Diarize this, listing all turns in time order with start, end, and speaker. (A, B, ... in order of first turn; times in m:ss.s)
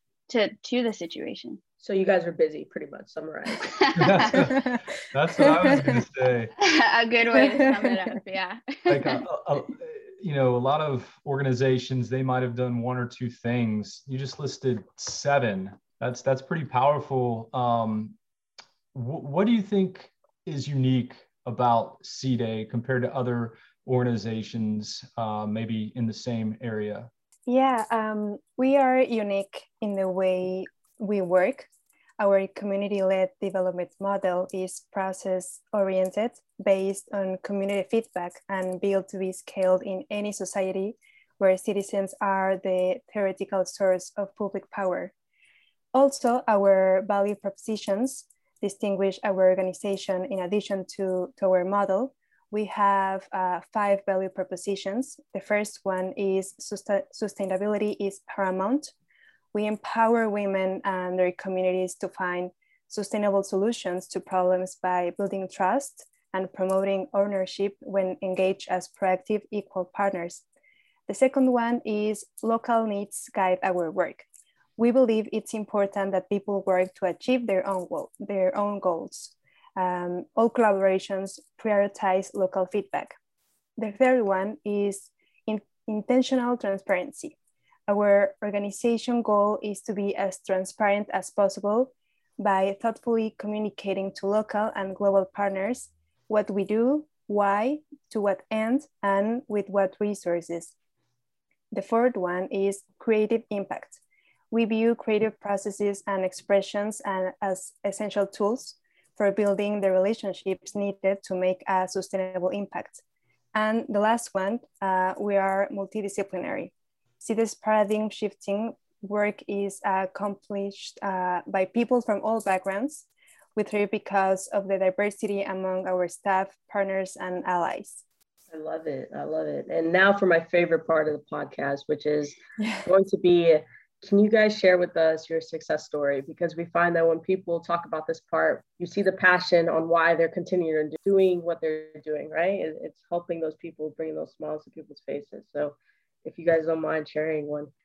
0:00.3-0:01.6 A
0:01.8-0:03.8 B
0:04.0-0:06.5 C
0:05.4-0:06.0 D
0:06.6-0:09.2 A
0:07.4-0:07.7 D
0:08.9-0:18.2 C
0:18.9-0:27.1 C
0:27.5-0:45.1 D
0:45.9-0:58.9 D
0:59.5-1:10.4 D
1:11.1-1:14.3 D
1:14.8-1:23.2 D
1:23.8-1:27.4 D
1:27.9-1:40.7 D
1:41.7-1:44.0 D
1:44.5-1:53.0 D
1:53.6-2:08.0 D
2:08.5-2:27.7 B